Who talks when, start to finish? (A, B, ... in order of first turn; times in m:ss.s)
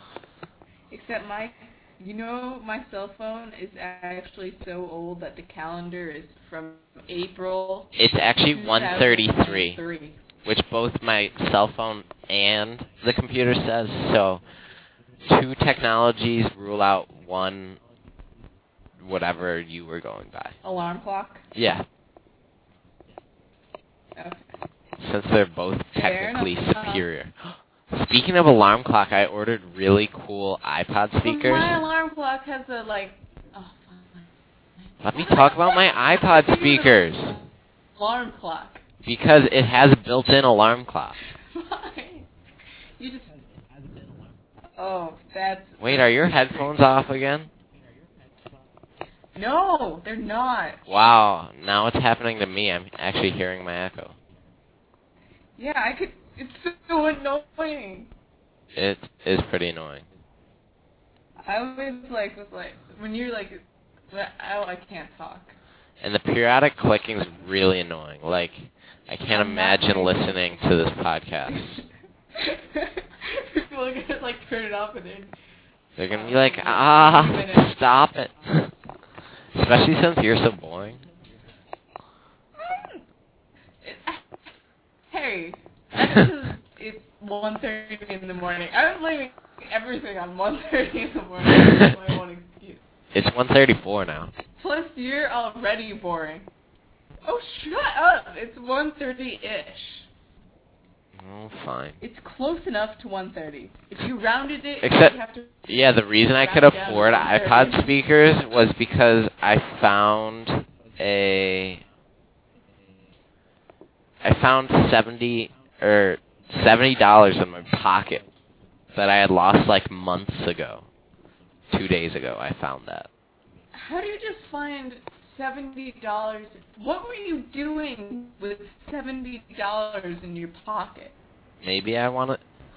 0:00.9-0:10.2 A
0:08.0-0:09.8 B
0:10.4-0:14.4 B
0:15.3-0:17.8 B
0:19.0-0:20.6 B
0:20.6-0:21.4 A
0:21.5-0:21.8 B
0:24.2-0:24.5 A
0:25.0-0:31.8 B
0:25.9-0:27.0 A
0:31.2-0:38.8 A
0:35.0-0:37.3 B
0:39.0-0:41.2 B
0:41.3-0:42.3 A
0:43.0-0:43.4 A
0:44.8-0:46.9 A
0:45.8-0:47.5 B
0:49.3-0:50.8 A
0:50.9-0:54.2 B
0:55.6-0:58.1 A
0:58.8-1:00.0 B
1:01.4-1:05.5 A
1:06.0-1:11.8 B
1:09.3-1:10.5 A
1:11.5-1:11.8 A
1:12.4-1:15.3 A
1:16.0-1:18.7 B
1:16.1-1:17.7 A
1:19.5-1:21.0 B
1:22.6-1:23.0 A
1:23.8-1:24.4 A
1:25.1-1:32.8 A
1:31.6-1:31.8 B
1:33.1-1:34.3 B
1:34.6-1:36.5 A
1:37.2-1:40.1 A
1:41.1-1:42.0 B
1:42.0-1:47.9 A
1:44.8-1:45.1 B
1:45.7-1:51.8 B
1:54.2-1:58.2 B
1:58.9-2:00.9 B
2:01.7-2:03.1 B
2:03.7-2:11.2 A
2:11.6-2:12.4 B